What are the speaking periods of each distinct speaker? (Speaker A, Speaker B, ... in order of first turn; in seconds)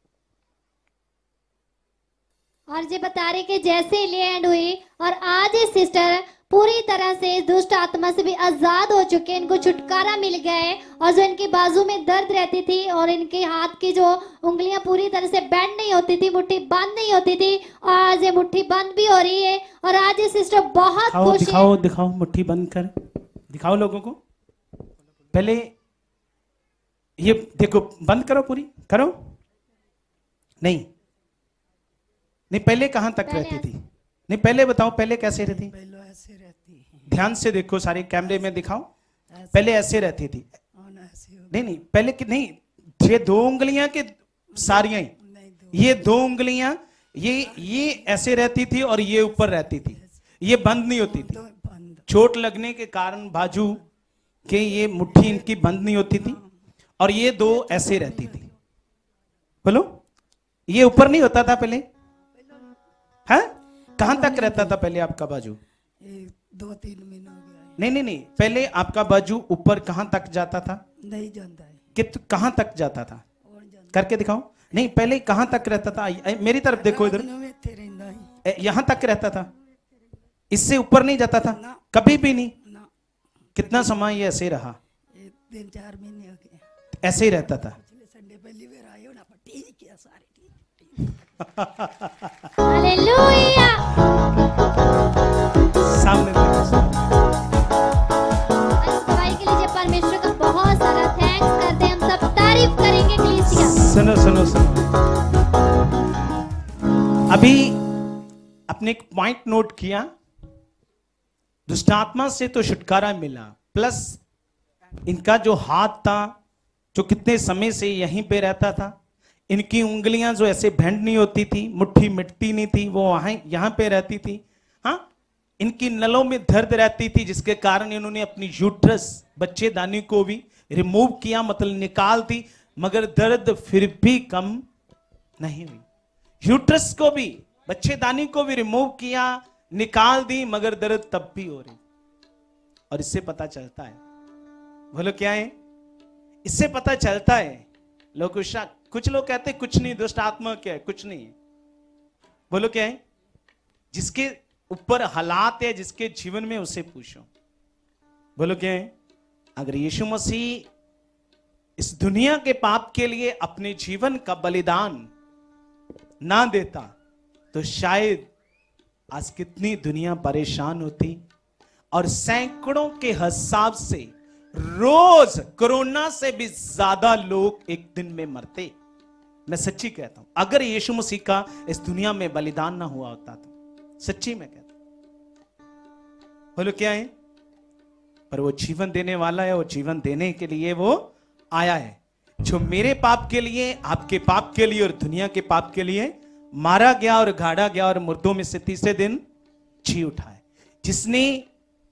Speaker A: 2.7-21.7, 33.2-33.7, 92.6-93.9, 98.8-103.8
Speaker B: 21.1-22.9, 23.5-24.2, 25.3-25.7, 27.2-29.2, 30.6-30.9, 32.5-35.7, 37.1-38.9, 39.5-40.5, 41.5-45.1, 45.7-51.4, 52.1-53.8, 54.5-56.4, 57.0-58.5, 59.6-59.9, 60.7-61.8, 63.3-65.6, 67.8-70.8, 71.9-73.2, 73.9-77.3, 78.4-79.5, 80.5-82.5, 83.5-84.8, 87.0-87.8, 91.5-92.1, 95.9-97.2, 103.5-104.9, 107.3-107.8, 108.7-110.1, 111.7-114.2, 115.0-116.3, 116.9-119.0, 119.5-125.0, 125.6-134.6, 135.4-135.8, 136.4-141.8, 142.9-144.0, 144.9-145.5, 146.4-151.3, 152.5-153.0, 153.9-157.3, 158.4-158.9, 159.6-160.7, 161.8-165.1, 166.2-166.9, 167.5-168.3, 169.1-171.2, 171.9-178.7, 179.5-184.7, 186.6-187.1, 188.3-199.2, 199.8-201.5
Speaker C: 35.5-37.0, 39.4-39.8, 40.8-41.6, 44.5-45.9, 47.4-48.2, 49.4-50.0, 51.0-52.0, 57.5-58.5, 64.0-64.8, 66.0-67.8, 71.0-71.8, 73.5-74.0, 76.8-78.4, 81.5-81.8, 82.6-82.9, 85.1-86.6, 87.8-91.1